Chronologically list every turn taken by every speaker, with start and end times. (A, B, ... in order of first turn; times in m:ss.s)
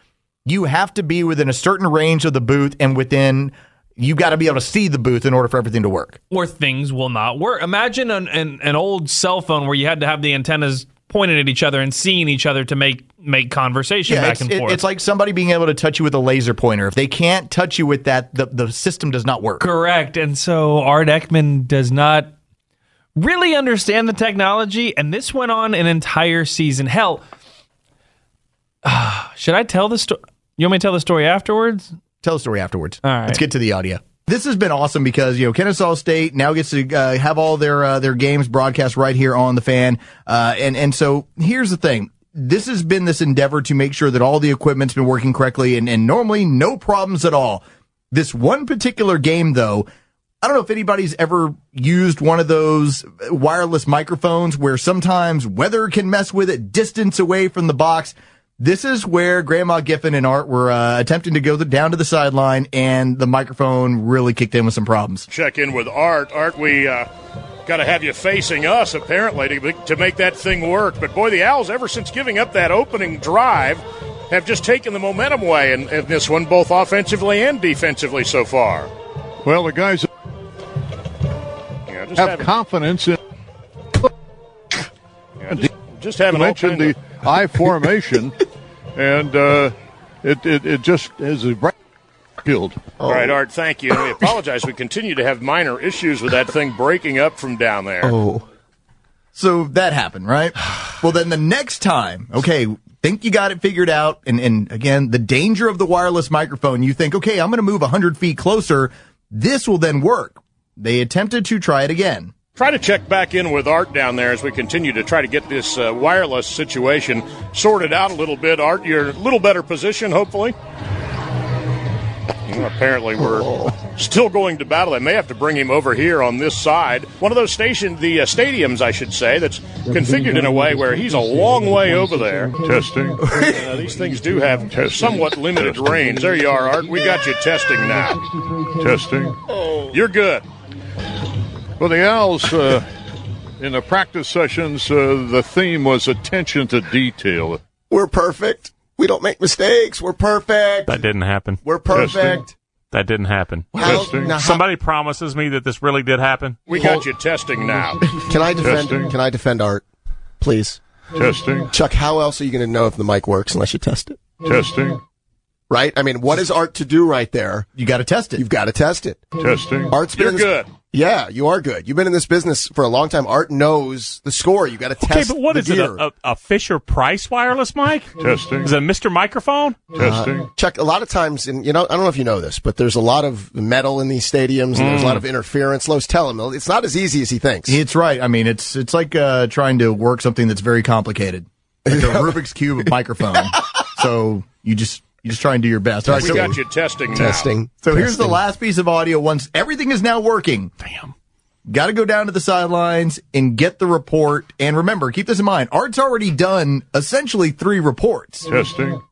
0:00.4-0:06.2 A
0:06.3-0:14.8 B
0:14.0-0:19.6 A
0:19.6-0:22.3 B
0:23.2-0:27.2 B
0:28.8-0:31.9 B
0:32.2-0:49.9 A
0:33.0-0:33.4 B
0:50.4-1:05.3 A
1:05.3-1:07.1 C
1:07.6-1:18.9 C
1:19.4-1:20.1 D
1:21.9-1:22.5 C
1:22.2-1:23.2 D
1:25.4-1:26.9 C
1:26.3-1:28.3 D
1:29.0-1:31.7 D
1:32.4-1:32.8 D
1:33.0-1:33.4 E
1:33.0-1:38.1 C
1:38.0-1:38.4 E
1:39.3-1:52.3 A
1:52.5-2:00.6 C
2:02.5-2:12.6 C
2:03.3-2:03.7 E
2:12.6-2:13.2 D
2:13.4-2:18.2 C
2:14.7-2:16.2 D
2:18.8-2:19.4 D
2:19.9-2:20.4 C
2:21.8-2:22.9 D
2:23.6-2:27.6 D
2:27.9-2:31.0 E
2:30.9-2:31.6 F
2:31.6-2:32.5 E
2:31.9-2:32.4 D
2:32.9-2:36.6 F
2:33.7-2:34.6 E
2:33.8-2:34.4 D
2:36.7-2:38.0 C
2:38.2-2:39.8 E
2:38.6-2:39.1 D
2:40.4-2:40.8 E
2:41.1-2:41.7 D
2:41.7-2:44.3 E
2:44.4-2:45.0 D
2:45.7-2:47.7 E
2:47.8-2:48.4 A
2:48.4-2:49.2 E
2:49.4-2:49.9 D
2:49.9-2:56.0 E
2:50.1-2:50.7 C
2:55.0-2:59.9 F
2:58.2-2:58.7 D
2:59.9-3:00.5 D
3:00.0-3:07.8 E
3:04.7-3:05.2 F
3:07.7-3:16.5 A
3:11.9-3:12.4 E
3:16.1-3:16.6 E
3:16.1-3:17.5 C
3:17.1-3:18.4 E
3:17.8-3:20.7 A
3:21.7-3:28.5 A
3:28.5-3:29.0 D